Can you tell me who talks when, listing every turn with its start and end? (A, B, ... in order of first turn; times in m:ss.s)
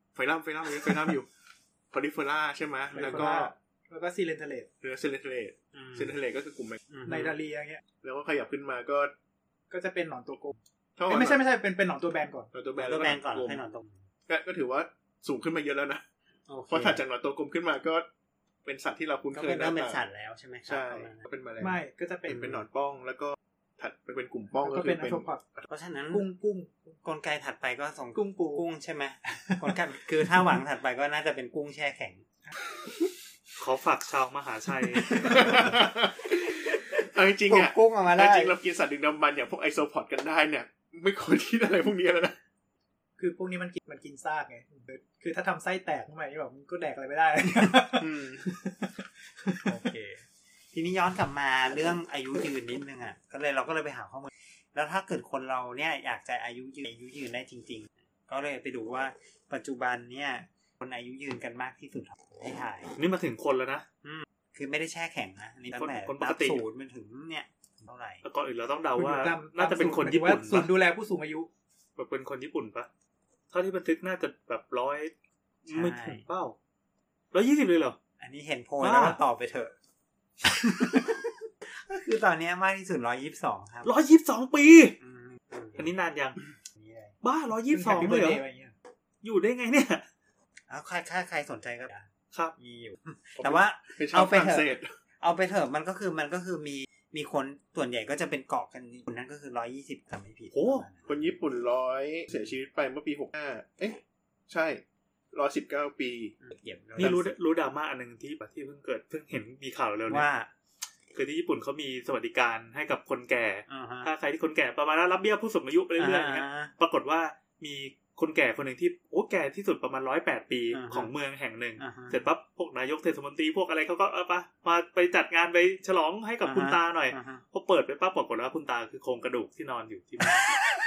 0:00.2-0:01.3 A
0:01.9-0:03.5 A
0:02.9-0:04.7 B
0:04.8-0:06.8 A
0:05.8-0:06.1 C
0:06.9-0:07.4 C
0:07.0-0:07.8 B
0:08.0-0:09.1 A
0:09.7-0:10.6 B
0:11.0-0:11.4 A
0:11.1-0:12.5 B
0:12.5-0:13.6 A
0:12.8-0:14.0 C
0:14.3-0:16.0 A
0:16.5-0:17.0 C
0:16.7-0:18.1 A
0:18.6-0:20.0 A
0:19.3-0:21.2 C
0:20.7-0:25.7 A
0:21.6-0:22.6 B
0:22.3-0:22.6 C
0:24.6-0:25.4 B
0:25.7-0:26.2 C
0:26.1-0:27.0 B
0:27.0-0:32.2 C
0:28.1-0:28.6 B
0:29.3-0:29.8 B
0:33.6-0:35.7 D
0:35.2-0:42.4 A
0:35.3-0:35.7 C
0:36.6-0:38.5 C
0:43.2-0:48.9 B
0:48.0-0:48.4 A
0:49.4-0:49.8 B
0:49.6-1:03.0 C
1:03.0-1:03.8 D
1:04.0-1:08.2 C
1:05.7-1:06.6 D
1:08.2-1:10.7 D
1:09.0-1:11.5 B
1:12.0-1:12.9 D
1:13.5-1:15.1 D
1:15.6-1:16.6 D
1:15.7-1:16.2 C
1:17.3-1:18.0 D
1:18.2-1:19.7 C
1:18.8-1:19.2 D
1:20.4-1:23.9 C
1:23.8-1:25.0 D
1:25.0-1:25.9 C
1:25.8-1:26.4 D
1:26.7-1:27.1 C
1:27.2-1:28.4 D
1:27.7-1:28.7 B
1:29.2-1:30.0 D
1:30.7-1:41.2 C
1:33.4-1:34.9 A
1:40.5-1:40.9 D
1:41.1-1:46.3 A
1:46.4-1:47.3 C
1:47.0-1:50.3 D
1:47.0-1:47.2 A
1:50.1-1:50.5 C
1:51.1-2:10.5 D
1:53.7-1:54.1 C
1:56.0-1:56.7 C
2:00.7-2:01.1 C
2:01.8-2:02.2 C
2:06.4-2:07.4 C